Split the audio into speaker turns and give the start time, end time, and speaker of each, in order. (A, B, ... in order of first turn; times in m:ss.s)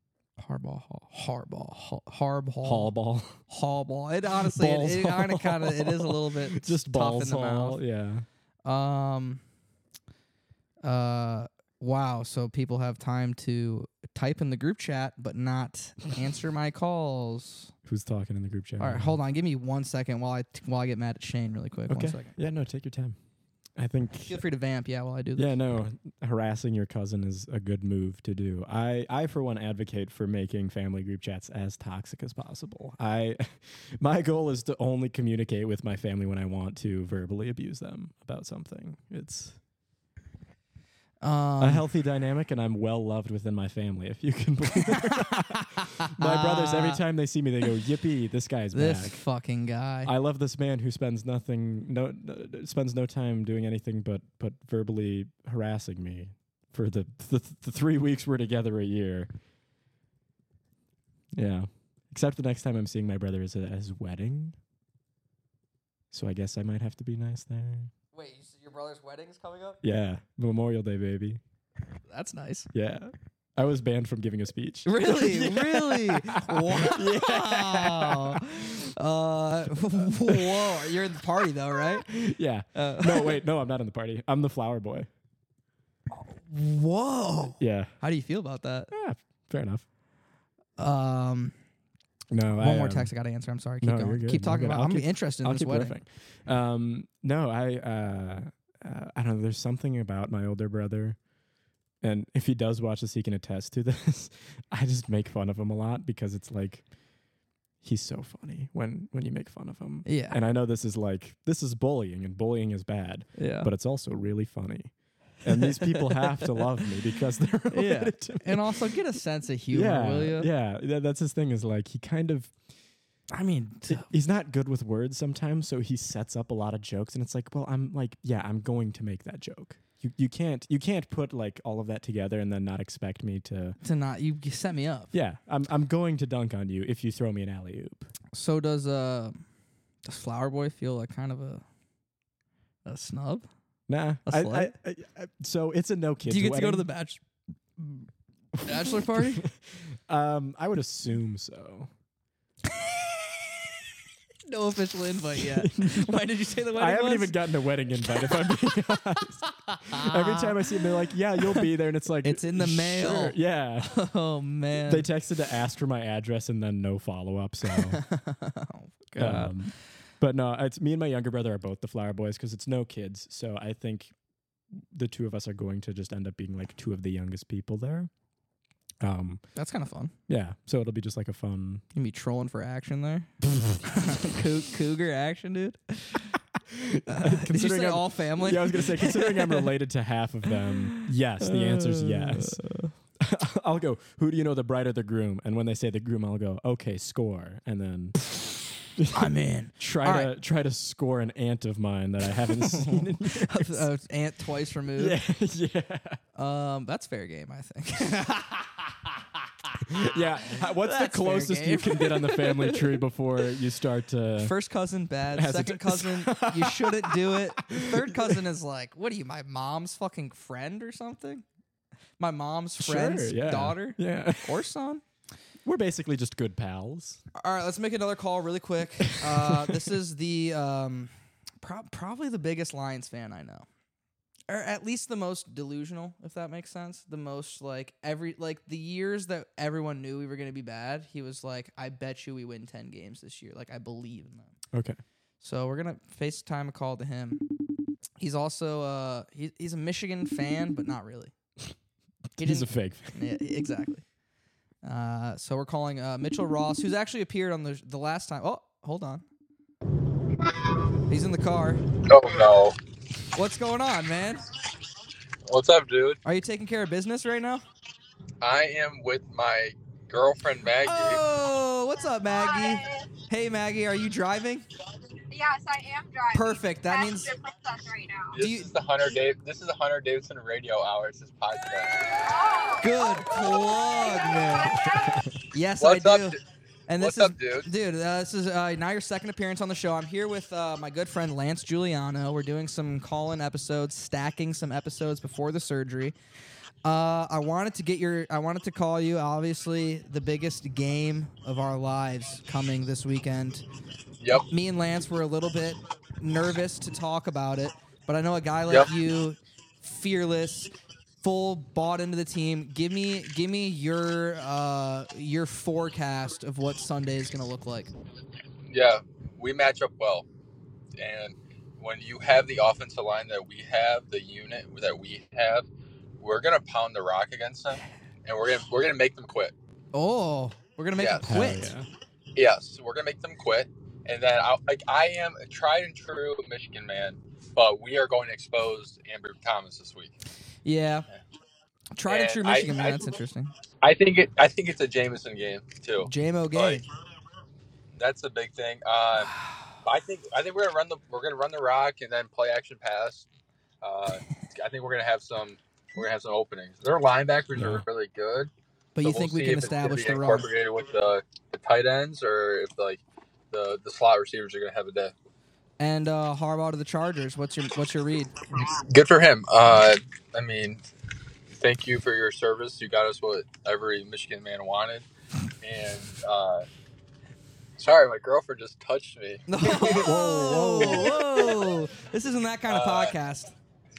0:00.4-0:02.9 A
0:02.6-0:03.4 B
0:03.5-0:07.8 A
0:04.4-0:08.3 B
0:08.6-0:09.4 A
0:10.8-0:17.7 A
0:17.8-0:19.2 B
0:18.8-0:22.4 A
0:21.9-0:23.2 B
0:23.8-0:24.4 B
0:24.2-0:25.6 A
0:25.4-0:39.6 B
0:41.2-0:41.8 A
0:41.6-0:49.2 B
0:44.9-0:47.0 A
0:48.7-0:50.1 A
0:50.0-0:59.3 B
1:01.3-1:04.6 B
1:06.1-1:07.9 B
1:08.1-1:09.8 A
1:09.8-1:11.4 B
1:12.1-1:12.7 A
1:12.7-1:18.6 B
1:14.9-1:22.1 A
1:19.7-1:20.9 B
1:21.8-1:25.1 B
1:22.8-1:23.4 A
1:26.1-1:28.9 A
1:27.6-1:27.9 B
1:28.9-1:29.8 B
1:30.8-1:31.5 A
1:32.3-1:33.1 B
1:32.6-1:36.0 A
1:33.8-1:41.2 B
1:42.0-1:46.9 B
1:47.8-1:58.9 B
1:50.0-1:50.4 A
1:53.4-1:53.7 A
1:55.5-1:56.5 A
1:57.7-2:00.5 A
1:59.7-2:02.6 B
2:03.3-2:04.1 A
2:03.9-2:13.8 B
2:13.8-2:15.1 A
2:15.1-2:18.1 B
2:18.3-2:19.4 A
2:20.0-2:21.6 A
2:22.8-2:23.5 A
2:23.9-2:26.9 B
2:24.3-2:24.7 A
2:26.3-2:27.2 A
2:27.8-2:28.1 A
2:28.6-2:31.9 B
2:28.6-2:29.4 A
2:34.5-2:37.4 A
2:35.4-2:44.0 B
2:39.7-2:40.8 A
2:41.4-2:41.7 A
2:42.2-2:45.1 A
2:44.8-2:48.0 B
2:47.8-2:49.6 A
2:49.2-2:54.1 B
2:54.7-2:58.1 B
2:59.0-2:59.4 B
2:59.6-3:00.1 A
3:00.3-3:01.8 B
3:01.9-3:03.3 A
3:03.8-3:06.3 A
3:06.7-3:12.6 B
3:07.1-3:09.7 A
3:10.5-3:12.9 A
3:13.2-3:18.2 B
3:19.0-3:23.9 B
3:19.1-3:20.3 A
3:22.6-3:25.2 A
3:25.0-3:26.2 B
3:26.4-3:28.6 A
3:29.9-3:34.6 B
3:30.6-3:33.0 A
3:34.4-3:41.4 A
3:35.3-3:38.4 B
3:42.2-3:45.0 A
3:42.8-3:44.6 B
3:45.6-3:47.2 B
3:47.4-3:53.7 A
3:49.1-3:49.9 B
3:54.5-4:04.5 A
4:04.7-4:05.0 B
4:05.4-4:07.4 A
4:08.2-4:11.3 A
4:12.4-4:13.2 B
4:12.4-4:14.0 A
4:14.8-4:19.2 A
4:21.1-4:21.8 A
4:22.1-4:22.8 C
4:23.4-4:24.5 A
4:25.5-4:26.2 C
4:26.2-4:27.6 A
4:28.4-4:31.2 C
4:30.8-4:34.7 A
4:32.2-4:33.1 D
4:35.3-4:38.4 D
4:36.3-4:37.3 A
4:38.3-4:42.1 C
4:38.4-4:38.7 A
4:42.3-4:45.3 D
4:42.8-4:44.9 A
4:45.5-4:46.4 A
4:45.8-4:46.4 C
4:46.9-4:56.2 A
4:47.0-4:47.7 C
4:56.8-5:03.6 A
5:04.5-5:17.9 A
5:18.7-5:20.3 C
5:21.0-5:25.7 C
5:26.2-5:29.5 C
5:29.9-5:31.7 A
5:31.0-5:31.4 C
5:31.3-5:31.9 B
5:32.4-5:40.1 C
5:40.6-5:41.1 A
5:42.0-5:43.5 A
5:42.1-5:43.2 C
5:43.8-5:46.8 C
5:46.0-5:46.8 A
5:48.0-5:49.3 C
5:49.8-5:53.3 C
5:53.8-5:58.5 C
5:57.6-5:57.8 B
5:59.0-6:00.5 A
5:59.0-6:05.1 C
6:05.8-6:08.3 A
6:08.6-6:10.8 C
6:11.5-6:15.1 C
6:15.6-6:16.6 C
6:17.8-6:20.1 C
6:19.5-6:23.5 A
6:19.8-6:21.5 B
6:20.8-6:21.7 C
6:22.7-6:23.2 C